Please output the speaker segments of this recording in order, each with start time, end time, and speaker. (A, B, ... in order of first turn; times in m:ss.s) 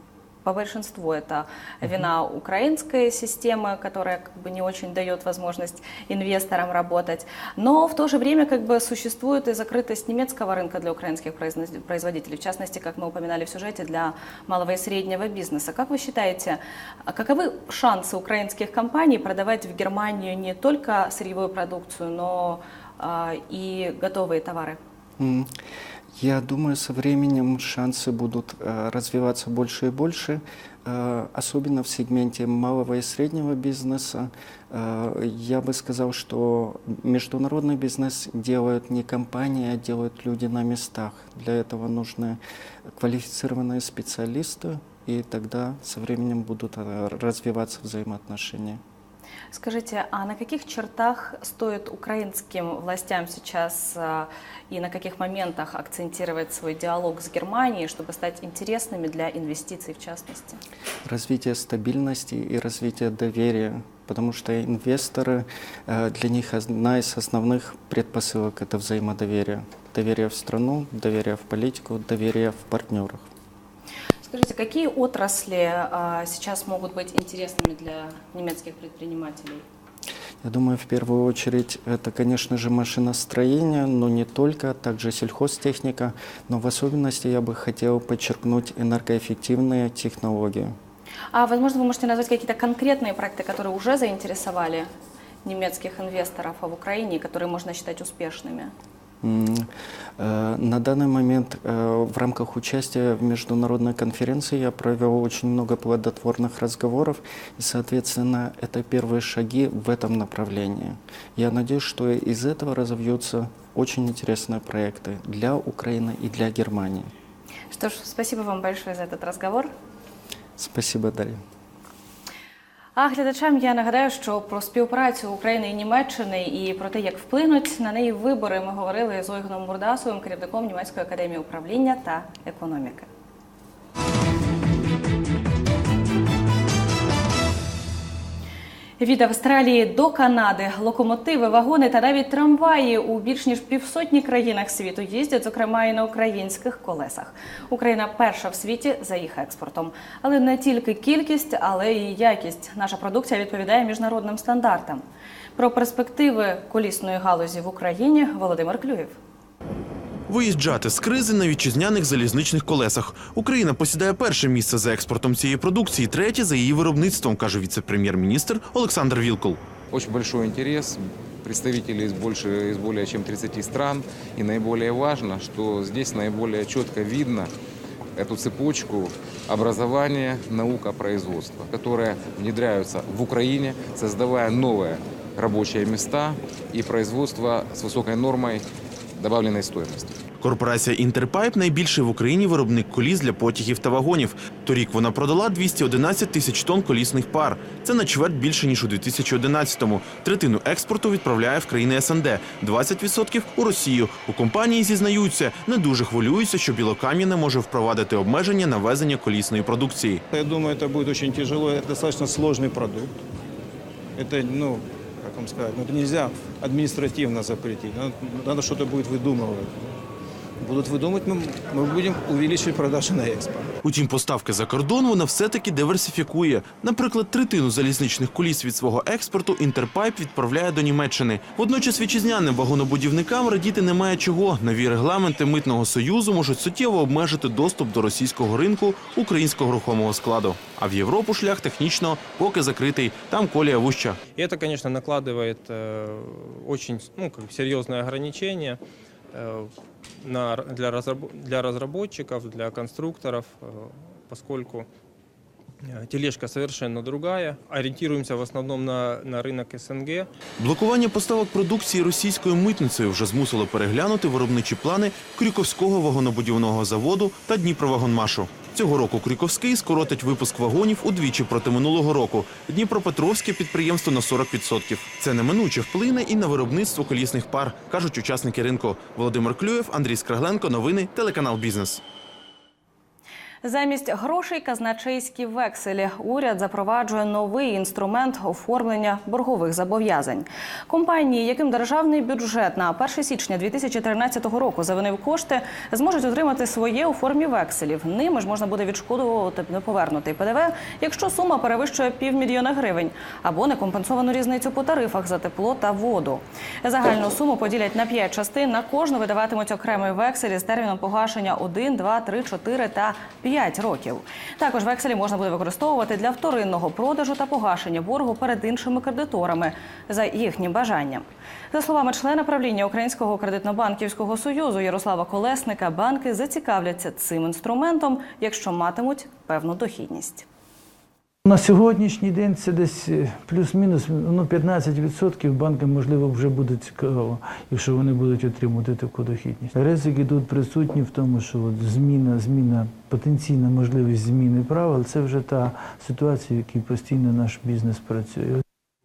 0:00.4-0:24.8 A
0:25.2-0:25.5 B
0:26.1-0:48.8 B
0:49.5-1:00.6 A
1:01.0-1:13.3 B
1:14.2-1:19.6 A
1:20.4-1:30.8 B
1:31.3-1:34.9 A
1:35.4-1:38.7 A
1:39.2-1:57.1 B
1:57.7-1:59.7 A
2:00.6-2:01.4 B
2:03.0-2:13.1 A
2:19.0-2:35.0 A
2:35.6-2:39.2 A
2:40.3-2:49.6 C
2:49.9-2:57.5 D
2:58.2-3:10.2 D
3:10.4-3:30.2 C
3:30.3-3:33.2 E
3:34.2-3:40.0 E
3:40.6-3:43.7 E
3:43.8-4:04.2 C
4:04.3-4:08.8 F
4:09.3-4:09.7 F
4:10.2-4:14.9 F
4:15.8-4:20.3 F
4:20.6-4:42.0 C
4:43.6-5:30.5 A
5:31.4-5:48.6 G